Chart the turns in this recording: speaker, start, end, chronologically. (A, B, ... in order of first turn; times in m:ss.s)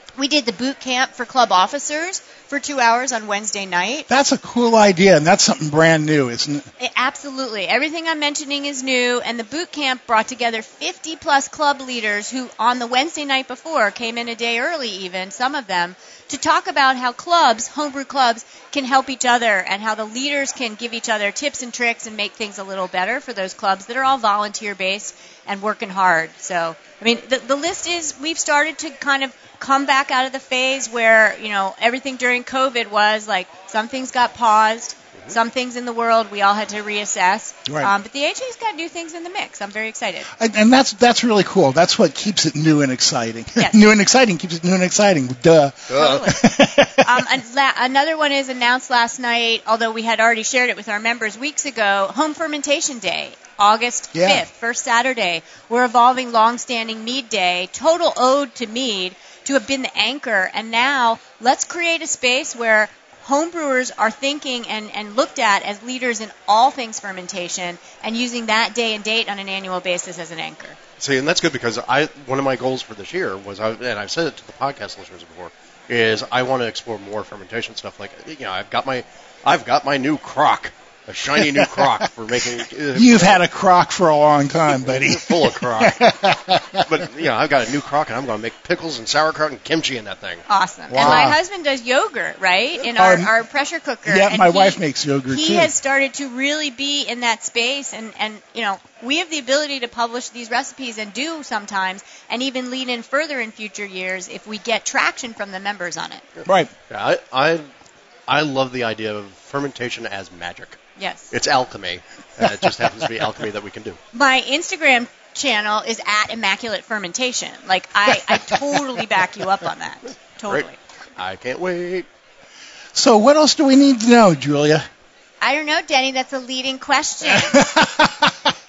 0:00.2-0:04.1 A
0:04.1-0:06.6 B
0:06.8-0:40.3 A
0:37.7-0:37.9 B
0:40.4-0:47.0 B
0:43.6-0:43.8 A
0:45.9-0:46.3 C
0:45.9-0:46.5 A
0:47.0-1:10.8 A
0:54.1-0:54.4 B
1:11.0-1:23.4 C
1:21.6-1:21.8 B
1:22.9-1:26.8 B
1:24.8-1:26.0 C
1:26.8-1:30.4 C
1:30.5-1:46.2 A
1:30.9-1:31.4 B
1:31.0-1:31.3 C
1:33.0-1:33.3 B
1:34.1-1:35.7 B
1:46.4-1:47.7 C
1:48.3-1:50.8 C
1:51.0-1:51.3 A
1:51.3-1:54.0 C
1:54.1-2:00.8 A
2:00.5-2:02.0 C
2:02.9-2:04.9 B
2:05.4-2:07.7 A
2:07.3-2:08.3 B